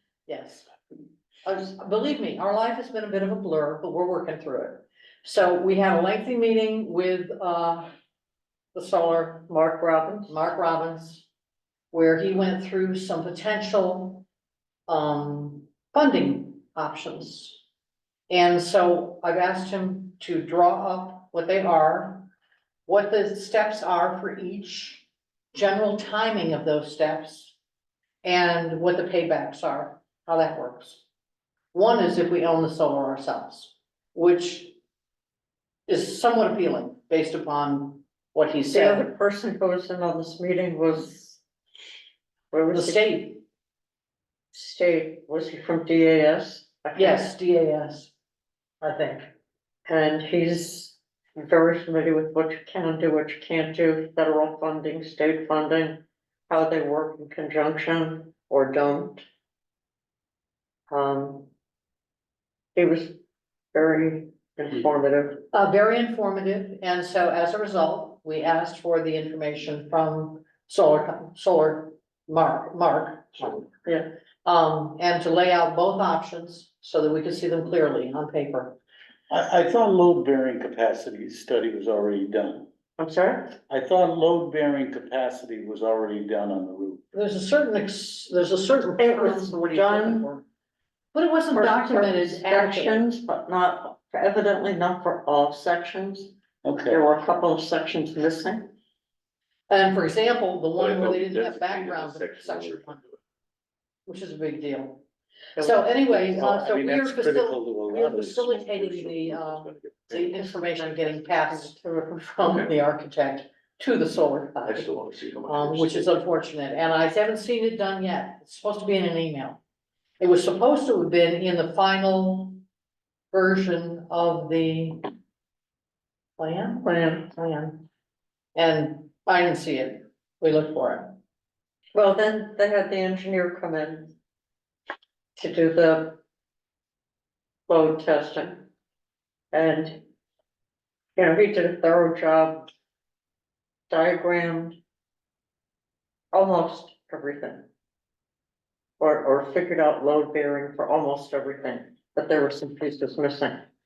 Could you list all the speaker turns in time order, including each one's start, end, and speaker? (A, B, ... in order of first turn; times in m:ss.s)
0:00.3-0:00.7 A
0:01.4-0:07.9 A
0:08.7-0:09.5 A
0:09.5-0:10.3 B
0:10.3-0:11.2 A
0:11.9-0:14.2 A
0:14.9-0:17.6 A
0:18.3-0:22.3 A
0:22.9-0:27.6 A
0:28.2-0:31.0 A
0:31.7-0:34.7 A
0:35.9-0:39.1 A
0:38.7-0:41.4 B
0:42.5-0:43.1 B
0:42.7-0:43.4 A
0:44.5-0:47.2 B
0:47.0-0:48.1 A
0:48.8-0:49.2 A
0:49.8-0:59.2 B
1:00.9-1:01.5 B
1:02.7-1:03.2 B
1:03.7-1:05.4 B
1:05.5-1:13.7 A
1:14.4-1:18.8 A
1:19.3-1:22.7 C
1:23.0-1:23.6 B
1:23.7-1:27.0 C
1:27.1-1:30.4 A
1:29.0-1:30.3 B
1:31.1-1:33.1 A
1:31.5-1:36.3 B
1:36.6-1:37.0 C
1:36.8-1:38.7 B
1:39.7-1:43.0 A
1:40.8-1:43.1 D
1:44.1-1:45.0 A
1:45.6-1:45.8 B
1:45.6-1:51.8 A
1:46.1-1:48.3 C
1:47.9-1:50.4 D
1:50.3-1:52.5 B
1:52.4-1:54.9 A
1:52.4-1:52.7 D
1:54.6-1:56.1 D
1:55.4-1:59.6 A
2:00.2-2:02.6 A
2:03.3-2:05.0 A
2:06.4-2:07.8 A
2:06.8-2:07.3 B
2:08.5-2:11.2 A
2:11.9-2:14.1 B
2:15.4-2:16.2 B
2:17.7-2:18.7 B
2:19.5-2:20.0 B
2:21.2-2:22.7 B
2:23.9-2:24.8 B
2:26.3-2:27.6 B
2:29.0-2:33.6 B